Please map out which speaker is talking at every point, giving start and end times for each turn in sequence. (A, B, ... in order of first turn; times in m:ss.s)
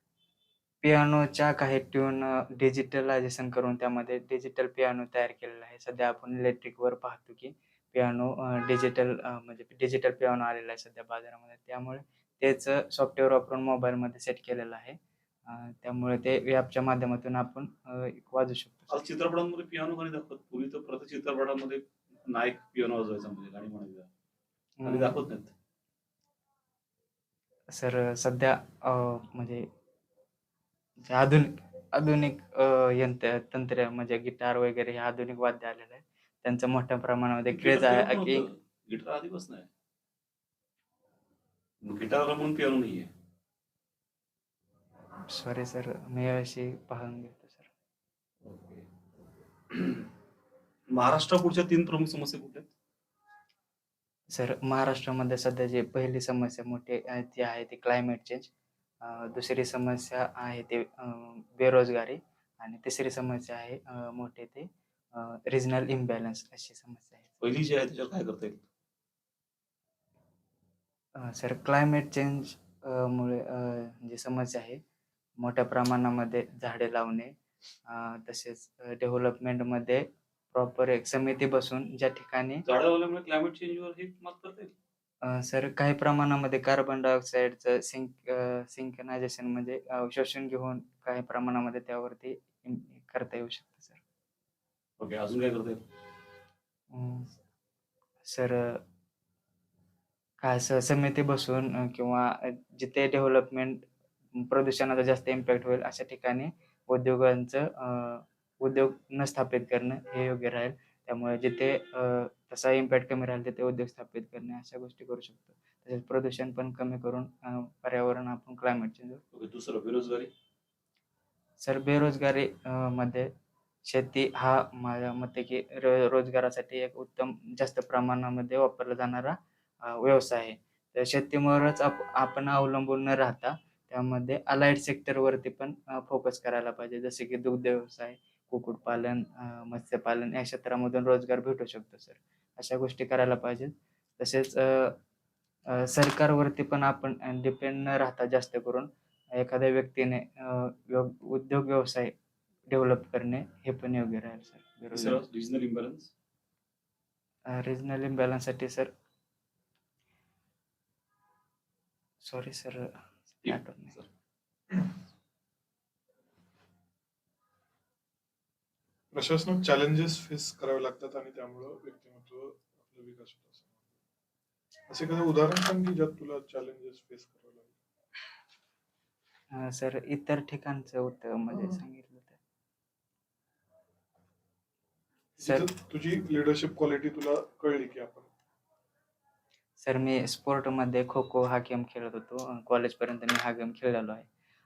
0:00.8-0:19.0 A
0:18.9-0:24.1 B
0:24.8-0:25.2 A
0:24.8-0:25.5 B
0:27.7-0:29.6 A
0:31.0-0:38.4 A
0:37.5-0:39.7 B
0:41.8-0:43.1 B
0:45.3-0:47.7 A
0:48.4-0:48.8 B
0:49.7-0:50.1 B
0:50.9-0:52.7 B
0:54.3-0:58.5 A
0:59.0-1:07.3 A
1:07.4-1:08.6 B
1:11.2-1:14.8 A
1:15.4-1:17.3 A
1:17.9-1:22.6 A
1:22.6-1:24.7 B
1:25.2-1:34.0 A
1:35.0-1:35.8 B
1:36.9-1:37.3 A
1:38.2-1:38.8 A
1:40.4-1:59.2 A
1:59.3-2:00.3 B
2:01.6-2:03.3 A
2:03.8-2:25.0 A
2:25.7-2:32.1 A
2:32.7-2:35.2 A
2:34.9-2:36.1 B
2:37.5-2:38.9 A
2:42.2-2:44.0 A
2:43.4-2:44.0 B
2:49.1-2:53.8 C
2:54.9-2:57.8 C
2:59.5-3:02.4 A
3:05.4-3:08.3 C
3:05.4-3:05.7 A
3:09.8-3:14.3 A